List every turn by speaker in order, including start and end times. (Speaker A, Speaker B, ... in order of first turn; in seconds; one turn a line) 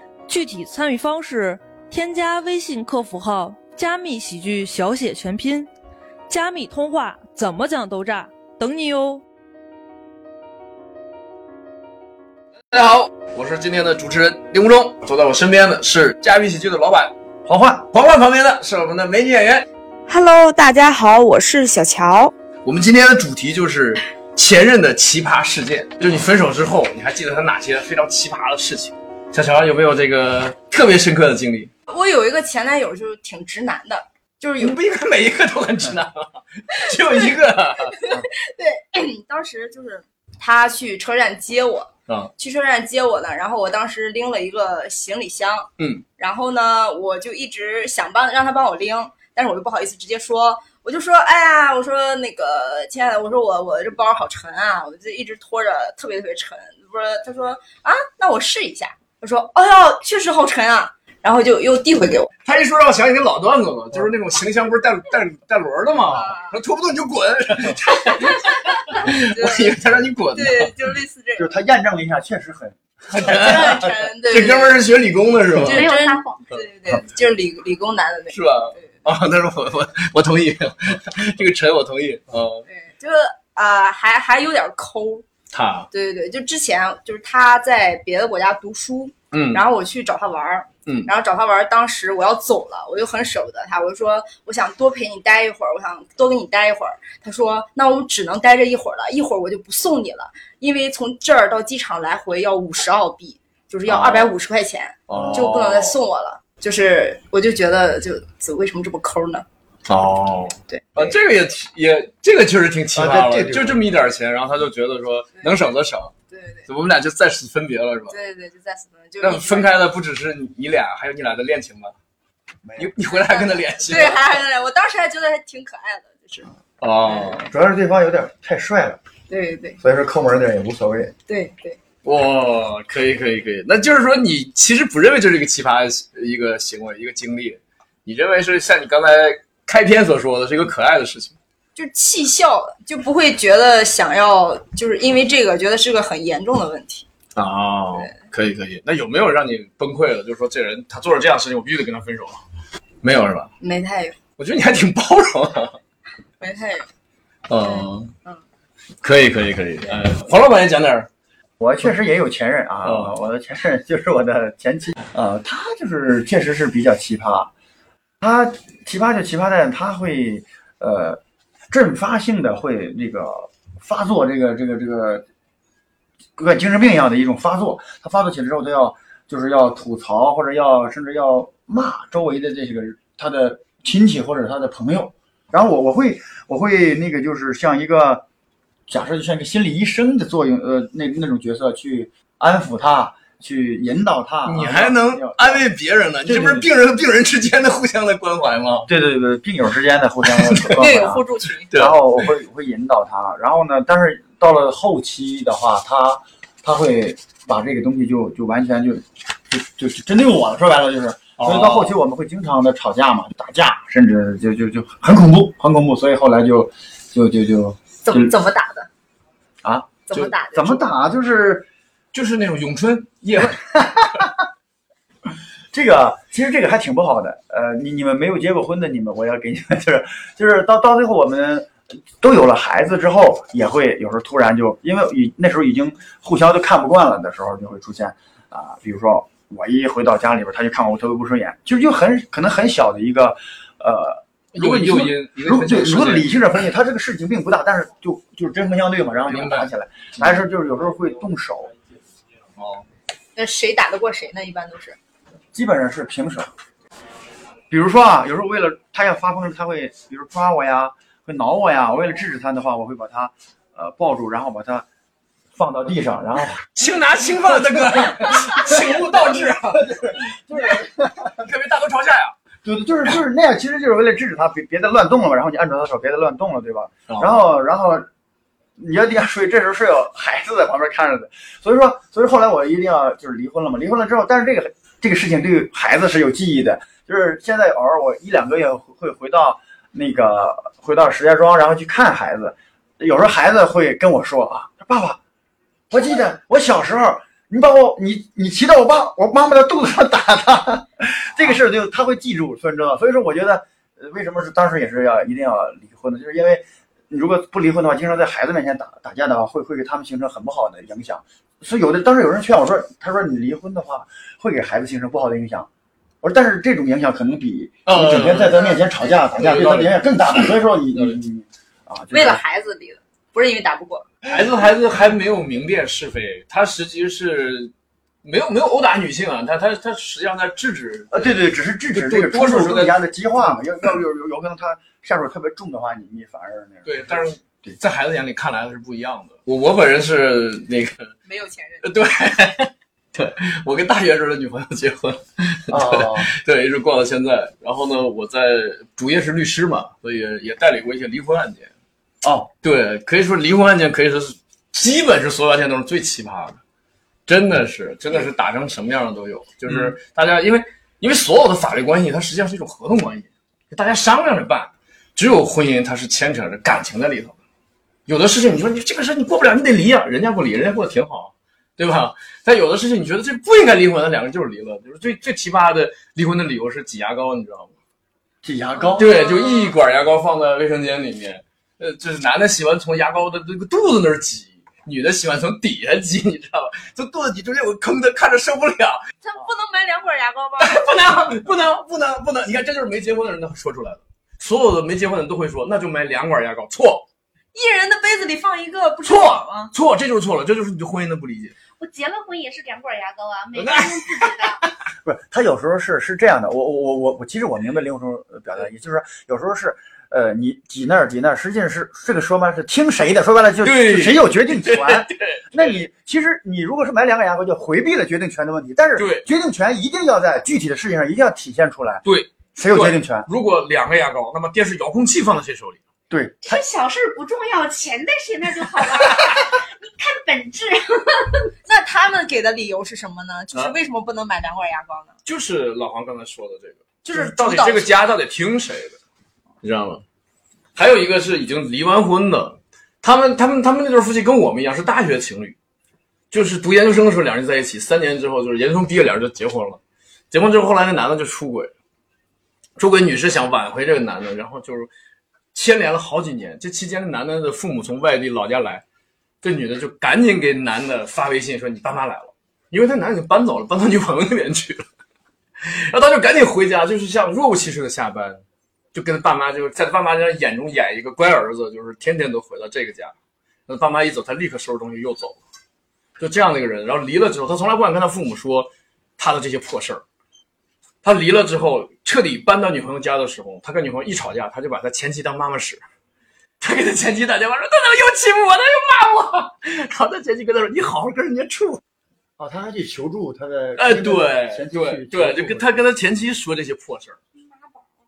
Speaker A: 0.3-5.7
Speaker A: 6.3-9.2
Speaker B: 12.7-17.1
Speaker C: 17.4-17.9
Speaker B: 17.9-19.7
Speaker D: 20.1-22.3
Speaker B: 22.6-31.7
Speaker D: 31.9-34.8
Speaker B: 34.6-38.0
Speaker D: 38.0-62.3
Speaker B: 45.8-46.0
Speaker B: 62.4-70.7
Speaker D: 66.1-66.6
Speaker D: 68.0-69.8
Speaker D: 70.3-71.5
Speaker C: 71.4-73.7
Speaker B: 73.1-75.9
Speaker D: 73.2-74.9
Speaker D: 75.6-79.0
Speaker E: 75.7-76.5
Speaker B: 78.3-82.7
Speaker D: 82.7-85.2
Speaker B: 85.5-85.9
Speaker D: 85.9-109.4
Speaker B: 89.3-89.6
Speaker B: 90.8-91.1
Speaker B: 103.8-104.3
Speaker B: 105.1-106.0
Speaker C: 105.2-105.6
Speaker B: 109.9-116.1
Speaker D: 110.7-111.0
Speaker C: 112.9-113.8
Speaker D: 115.4-115.7
Speaker D: 116.3-116.7
Speaker B: 116.7-118.1
Speaker D: 118.1-119.8
Speaker B: 119.2-121.9
Speaker C: 122.6-122.9
Speaker B: 122.8-124.3
Speaker D: 123.1-126.5
Speaker B: 126.8-127.5
Speaker C: 127.5-129.0
Speaker D: 129.3-129.8
Speaker C: 129.8-131.1
Speaker D: 131.3-131.8
Speaker B: 132.0-141.3
Speaker D: 141.7-147.1
Speaker B: 147.3-152.4
Speaker B: 153.0-153.5
Speaker D: 153.6-154.2
Speaker B: 154.4-155.8
Speaker D: 156.4-156.9
Speaker B: 157.5-158.1
Speaker D: 157.5-158.4
Speaker B: 159.0-161.1
Speaker C: 161.6-167.5
Speaker B: 162.8-163.1
Speaker C: 168.2-171.2
Speaker C: 171.7-175.2
Speaker C: 176.3-188.2
Speaker C: 188.9-195.7
Speaker B: 194.4-198.9
Speaker C: 196.2-196.7
Speaker C: 198.9-218.3
Speaker B: 200.3-200.8
Speaker D: 200.8-201.7
Speaker B: 201.6-202.3
Speaker B: 211.4-211.9
Speaker D: 218.0-218.9
Speaker C: 219.6-221.7
Speaker D: 220.1-220.8
Speaker B: 222.1-223.6
Speaker C: 223.5-224.3
Speaker C: 225.7-251.7
Speaker B: 244.5-246.3
Speaker B: 249.3-250.4
Speaker B: 252.6-252.8
Speaker D: 253.3-255.0
Speaker C: 255.5-256.5
Speaker C: 257.7-264.9
Speaker C: 265.5-266.7
Speaker B: 266.7-272.3
Speaker C: 267.6-271.3
Speaker C: 272.6-278.1
Speaker C: 278.8-295.2
Speaker C: 295.9-315.7
Speaker C: 316.2-322.4
Speaker B: 317.8-318.8
Speaker B: 319.3-321.2
Speaker D: 322.1-324.1
Speaker B: 324.2-327.7
Speaker B: 328.2-331.4
Speaker C: 331.1-337.8
Speaker B: 331.9-333.0
Speaker B: 336.8-341.1
Speaker D: 341.2-341.9
Speaker B: 341.8-351.7
Speaker C: 345.7-346.3
Speaker C: 352.2-352.5
Speaker B: 352.6-356.6
Speaker B: 357.3-367.3
Speaker C: 359.7-359.9
Speaker B: 368.1-377.7
Speaker C: 378.4-379.2
Speaker D: 378.8-379.7
Speaker B: 379.0-389.0
Speaker D: 389.2-390.9
Speaker B: 390.6-397.1
Speaker D: 397.5-399.7
Speaker B: 399.0-401.5
Speaker E: 401.8-404.6
Speaker B: 403.5-404.7
Speaker C: 405.0-423.3
Speaker B: 413.6-415.8
Speaker B: 419.0-419.2
Speaker B: 422.0-425.8
Speaker C: 426.1-426.6
Speaker E: 426.4-431.2
Speaker D: 431.6-435.1
Speaker B: 435.2-439.0
Speaker D: 437.0-438.0
Speaker B: 439.6-440.0
Speaker B: 440.7-445.6
Speaker B: 446.3-449.8
Speaker B: 450.3-451.7
Speaker B: 452.8-454.9
Speaker B: 455.5-458.8
Speaker B: 459.4-464.8
Speaker B: 465.6-468.4
Speaker B: 468.9-473.1
Speaker B: 473.7-475.4
Speaker B: 476.2-480.0
Speaker B: 481.0-485.8
Speaker B: 486.6-491.8
Speaker C: 492.4-495.9
Speaker B: 493.8-497.2
Speaker E: 497.4-497.9